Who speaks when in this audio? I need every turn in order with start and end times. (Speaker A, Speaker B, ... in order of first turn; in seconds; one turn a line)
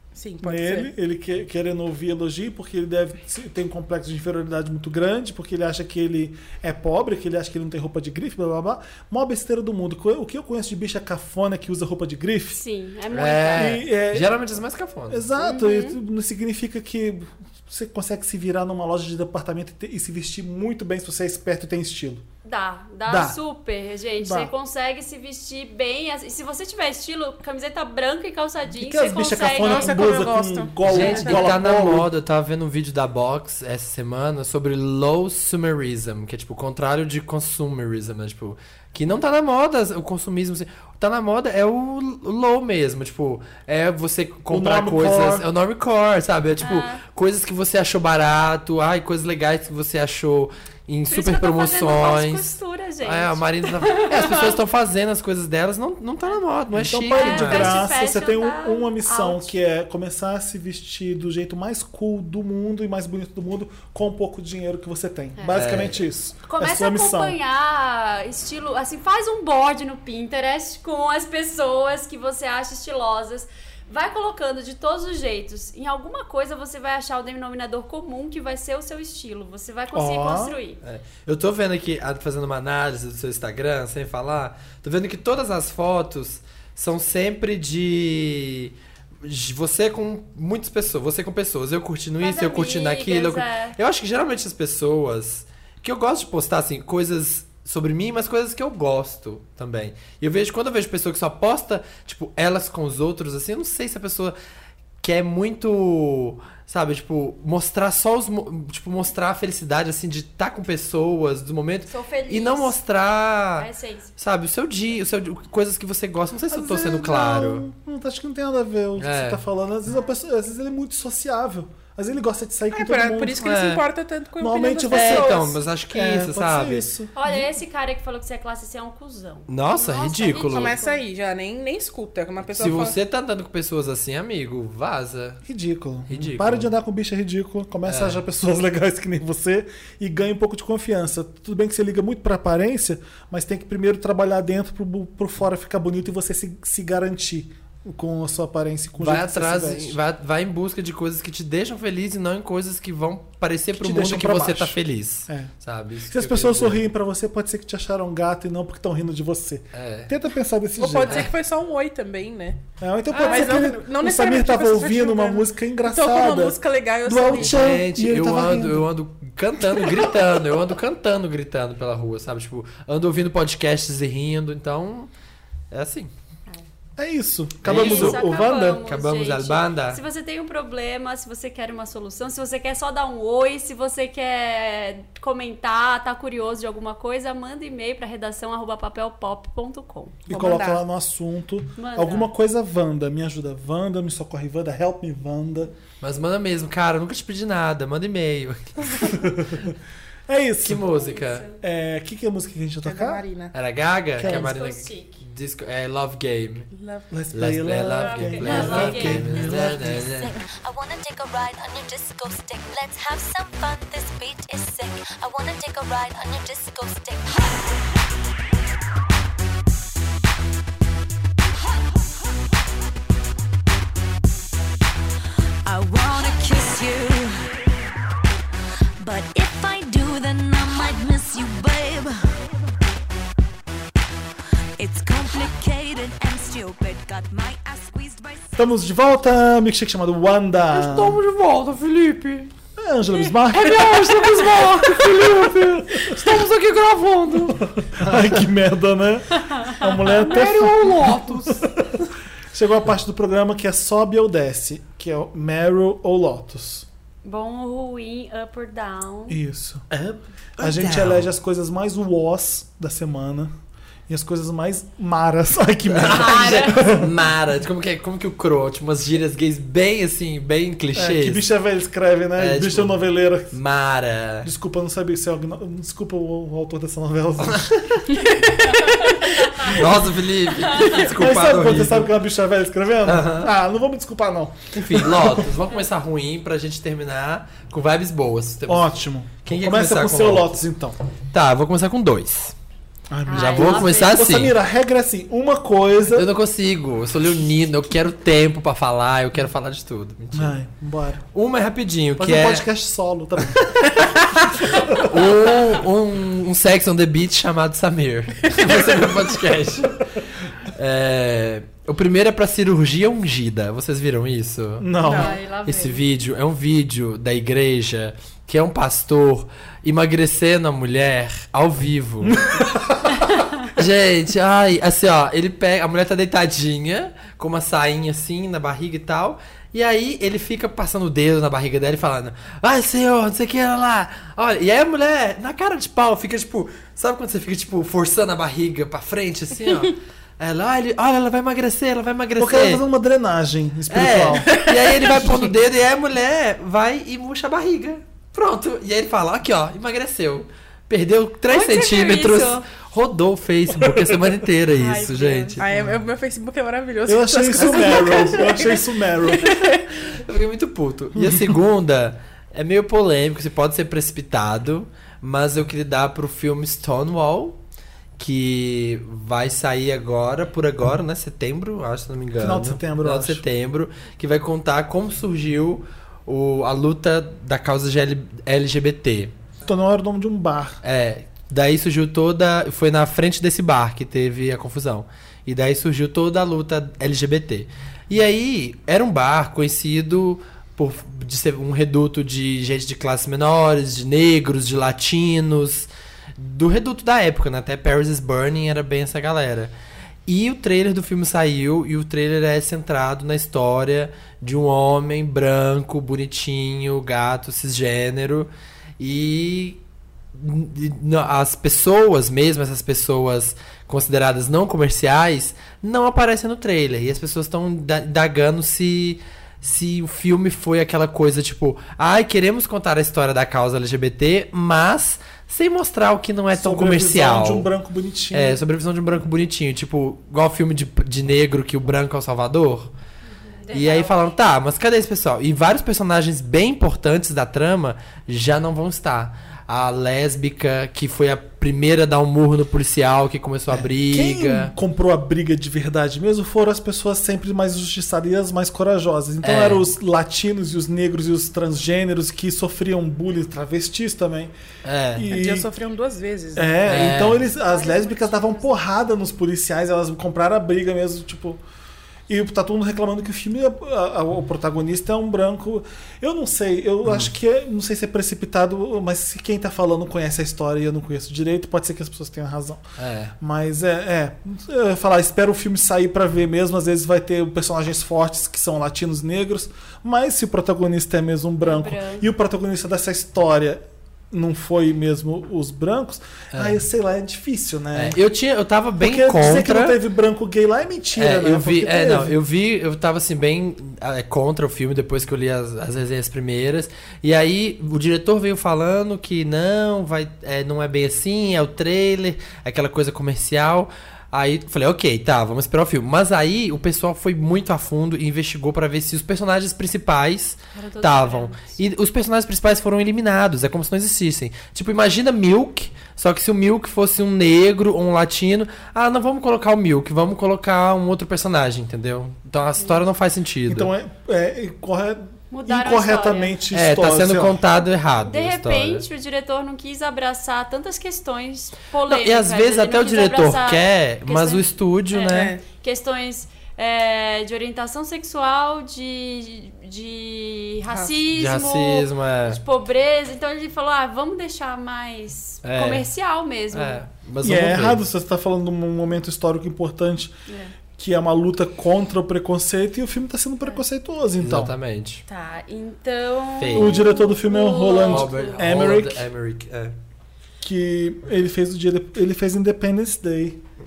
Speaker A: 0.1-0.9
Speaker B: 0.4-12.6
Speaker C: 12.5-13.8
Speaker D: 13.1-15.2
Speaker B: 13.5-14.4
Speaker B: 15.1-22.2
Speaker C: 15.4-16.0
Speaker C: 22.4-30.0
Speaker B: 23.1-23.4
Speaker B: 24.2-24.5
Speaker B: 28.7-32.1
Speaker A: 29.6-31.5
Speaker D: 30.9-57.8
Speaker B: 44.5-45.5
Speaker C: 46.6-47.0
Speaker C: 51.1-54.6
Speaker B: 56.7-67.4
Speaker C: 57.1-59.5
Speaker D: 65.5-66.0
Speaker C: 66.5-80.8
Speaker B: 79.9-80.6
Speaker D: 80.8-104.3
Speaker C: 92.2-93.8
Speaker D: 105.0-117.7
Speaker C: 111.9-112.8
Speaker C: 113.6-114.1
Speaker B: 116.5-123.5
Speaker D: 119.0-119.4
Speaker A: 122.7-125.6
Speaker D: 123.4-123.9
Speaker B: 124.4-127.5
Speaker D: 124.9-126.9
Speaker C: 127.2-131.0
Speaker D: 129.5-130.8
Speaker A: 130.3-133.0
Speaker D: 132.5-135.4
Speaker B: 135.4-150.0
Speaker D: 136.1-136.7
Speaker D: 137.9-138.2
Speaker D: 149.0-156.8
Speaker B: 153.7-155.5
Speaker B: 156.1-161.3
Speaker D: 159.7-160.1
Speaker A: 160.8-162.6
Speaker B: 162.8-168.9
Speaker D: 163.1-163.6
Speaker A: 163.2-167.7
Speaker D: 167.3-175.1
Speaker D: 175.7-176.1
Speaker B: 177.0-178.8
Speaker D: 177.6-178.3
Speaker C: 177.7-190.2
Speaker D: 178.9-180.0
Speaker A: 190.3-190.8
Speaker B: 190.3-195.7
Speaker C: 191.8-192.3
Speaker D: 196.0-199.4
Speaker B: 199.0-199.7
Speaker B: 200.3-200.9
Speaker D: 200.6-201.5
Speaker C: 200.9-201.6
Speaker B: 201.6-203.2
Speaker A: 202.8-203.6
Speaker D: 203.5-206.7
Speaker B: 204.2-204.6
Speaker C: 204.2-205.2
Speaker A: 206.7-207.1
Speaker B: 207.1-210.0
Speaker D: 207.3-210.3
Speaker C: 207.9-209.3
Speaker E: 209.5-217.6
Speaker E: 225.7-227.4
Speaker E: 229.0-232.2
Speaker E: 234.8-238.6
Speaker B: 238.6-241.2
Speaker D: 240.7-242.5
Speaker B: 242.8-246.4
Speaker D: 243.5-248.2
Speaker B: 247.5-252.0
Speaker C: 249.4-249.9
Speaker D: 250.1-251.7
Speaker B: 252.5-256.9
Speaker C: 257.2-259.4
Speaker B: 259.3-259.9
Speaker D: 259.9-261.3
Speaker B: 260.6-263.5
Speaker B: 264.1-267.1
Speaker D: 265.9-271.4
Speaker C: 266.1-267.0
Speaker B: 270.9-273.6
Speaker D: 272.4-273.0
Speaker D: 273.5-274.5
Speaker B: 274.4-277.8
Speaker D: 277.4-278.1
Speaker A: 278.2-279.3
Speaker C: 278.8-279.8
Speaker B: 279.7-280.0
Speaker D: 279.7-282.1
Speaker C: 280.7-281.0
Speaker B: 280.8-285.5
Speaker D: 283.1-283.5
Speaker D: 284.7-290.6
Speaker B: 288.7-291.0
Speaker D: 291.3-292.6
Speaker B: 293.1-296.3
Speaker C: 293.3-294.2
Speaker D: 293.3-294.6
Speaker D: 296.1-300.6
Speaker B: 300.3-301.2
Speaker D: 301.3-302.7
Speaker B: 302.2-304.1
Speaker D: 303.8-310.1
Speaker B: 304.6-305.2
Speaker D: 310.7-314.9
Speaker B: 314.8-315.4
Speaker A: 315.0-315.4
Speaker C: 315.0-316.0
Speaker D: 315.6-322.4
Speaker B: 322.2-323.1
Speaker D: 323.7-342.8
Speaker B: 342.4-344.6
Speaker D: 343.9-355.7
Speaker A: 344.4-345.2
Speaker C: 351.5-352.7
Speaker C: 354.8-355.6
Speaker A: 355.6-359.9
Speaker B: 357.1-359.6
Speaker D: 360.1-367.6
Speaker B: 361.2-361.4
Speaker D: 368.2-379.3
Speaker B: 372.4-373.4
Speaker B: 379.6-380.8
Speaker D: 380.8-399.7
Speaker D: 400.3-409.8
Speaker D: 410.3-427.7
Speaker B: 426.6-428.6
Speaker D: 428.3-432.9
Speaker C: 433.4-434.4
Speaker D: 433.7-444.7
Speaker B: 443.7-454.5
Speaker D: 449.4-449.8
Speaker D: 454.8-455.2
Speaker B: 455.1-455.7
Speaker A: 455.3-456.8
Speaker B: 456.6-461.6
Speaker D: 456.9-457.4
Speaker C: 457.4-458.8
Speaker B: 462.3-472.8
Speaker D: 467.1-467.3
Speaker D: 473.0-473.3
Speaker B: 473.4-488.2
Speaker C: 481.6-482.3
Speaker D: 486.5-486.8
Speaker D: 487.9-490.0
Speaker B: 489.0-492.4
Speaker D: 491.1-523.9
Speaker C: 510.7-511.8
Speaker B: 523.7-527.6
Speaker C: 525.5-526.6
Speaker D: 526.7-529.0
Speaker C: 528.3-547.0
Speaker D: 532.1-535.5
Speaker A: 535.3-535.6
Speaker D: 541.3-542.6
Speaker D: 545.6-546.1
Speaker D: 546.7-548.0
Speaker B: 547.4-550.4
Speaker C: 550.5-550.7
Speaker B: 551.0-554.7
Speaker D: 554.4-555.2
Speaker C: 555.3-558.7
Speaker D: 556.6-557.0
Speaker B: 556.7-559.2
Speaker D: 558.1-560.0
Speaker B: 560.6-563.6